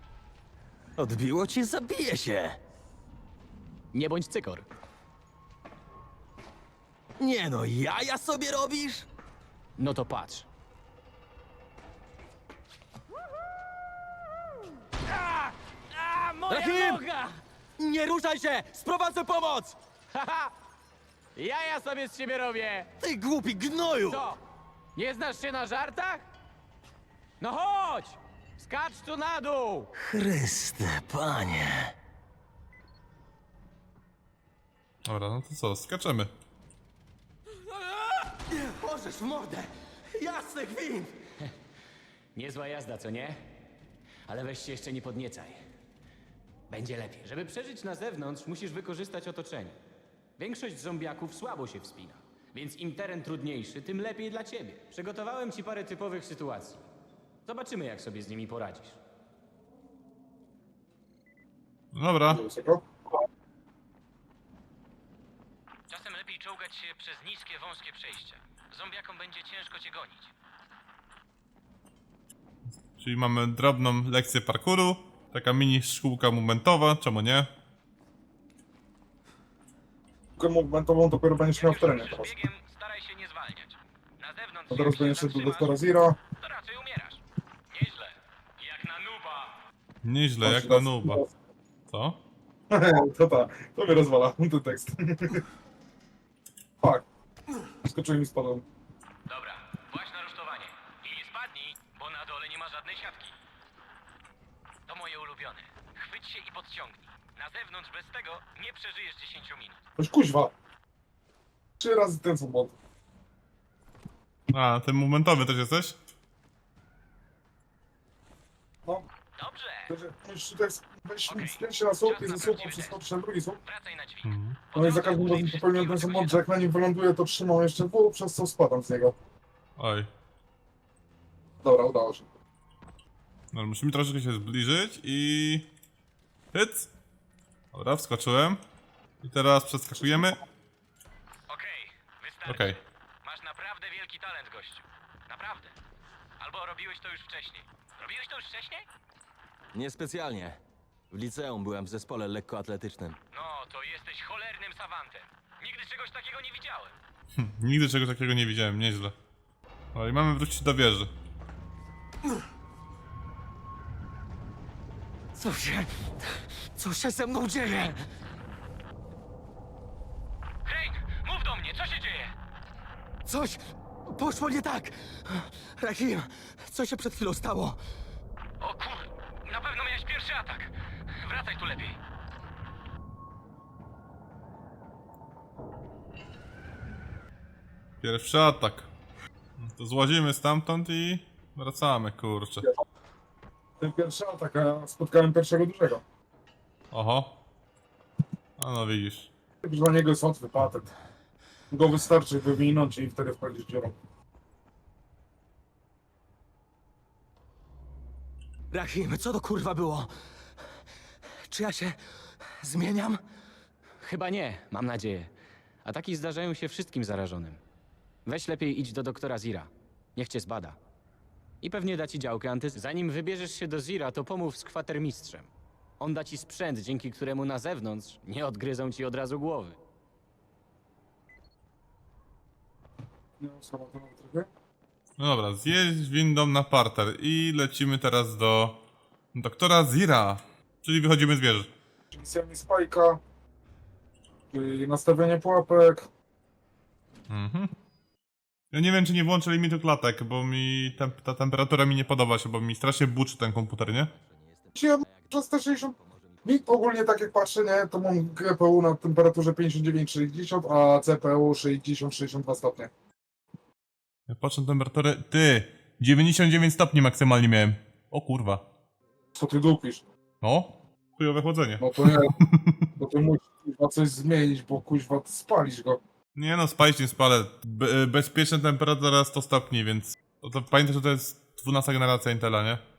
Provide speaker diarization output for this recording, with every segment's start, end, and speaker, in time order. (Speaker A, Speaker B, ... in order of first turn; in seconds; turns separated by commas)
Speaker A: 1.0-2.6, Speaker B: 3.9-4.7, Speaker A: 7.2-9.1, Speaker B: 9.8-10.5, Speaker B: 15.1-17.4, Speaker A: 16.5-17.0, Speaker A: 17.8-19.8, Speaker B: 20.1-20.5, Speaker B: 21.4-22.9, Speaker A: 23.0-24.3, Speaker B: 24.0-24.4, Speaker B: 24.9-26.2, Speaker B: 27.4-29.9, Speaker A: 30.0-31.9, Speaker C: 35.0-36.3, Speaker A: 38.5-41.2, Speaker B: 42.4-43.4, Speaker B: 44.3-45.6, Speaker B: 46.7-49.8, Speaker B: 50.4-56.9, Speaker B: 57.5-59.0, Speaker C: 61.9-62.4, Speaker D: 62.3-62.8, Speaker B: 65.9-70.3, Speaker C: 73.0-77.5, Speaker D: 80.4-82.4, Speaker B: 81.5-85.9, Speaker D: 84.7-86.2, Speaker B: 86.4-89.6, Speaker C: 90.0-91.2, Speaker D: 90.4-91.3, Speaker C: 91.9-92.2, Speaker D: 92.7-95.4, Speaker D: 96.8-97.1, Speaker D: 97.8-98.7, Speaker B: 99.3-103.3, Speaker B: 104.9-109.8, Speaker D: 110.0-110.5, Speaker D: 111.8-112.8, Speaker C: 114.5-116.0, Speaker B: 119.4-119.9, Speaker D: 119.9-123.6, Speaker B: 121.3-123.0, Speaker B: 123.6-126.5, Speaker C: 124.2-124.6, Speaker D: 124.8-129.2, Speaker C: 129.8-130.1, Speaker D: 131.6-132.3, Speaker C: 133.5-135.7, Speaker C: 136.5-136.9, Speaker C: 137.7-138.6, Speaker C: 139.2-140.4, Speaker B: 141.5-145.8, Speaker C: 142.5-142.8, Speaker B: 146.4-148.9, Speaker A: 149.7-150.6, Speaker A: 151.1-153.2, Speaker B: 153.3-156.9, Speaker C: 157.3-159.2, Speaker C: 159.9-161.1, Speaker A: 165.4-168.0, Speaker B: 170.7-172.3, Speaker A: 173.3-177.8, Speaker B: 178.6-182.0, Speaker C: 188.0-188.9, Speaker C: 189.6-192.7, Speaker D: 193.8-196.0, Speaker C: 196.9-197.4, Speaker C: 198.6-199.3, Speaker D: 199.6-200.9, Speaker D: 201.7-203.9, Speaker A: 208.7-210.1, Speaker A: 211.5-213.2, Speaker B: 214.0-215.3, Speaker B: 215.8-217.6, Speaker B: 218.3-220.8, Speaker B: 221.6-229.8, Speaker D: 233.4-234.5, Speaker C: 235.2-238.8, Speaker C: 239.3-241.7, Speaker D: 242.1-243.2, Speaker D: 244.5-246.1, Speaker C: 247.3-247.7, Speaker C: 248.7-254.1, Speaker A: 250.8-251.2, Speaker A: 254.0-256.6, Speaker D: 254.8-262.9, Speaker C: 264.3-268.6, Speaker D: 269.4-270.0, Speaker C: 270.4-272.9, Speaker D: 271.8-272.4, Speaker D: 273.0-276.0, Speaker C: 276.4-282.8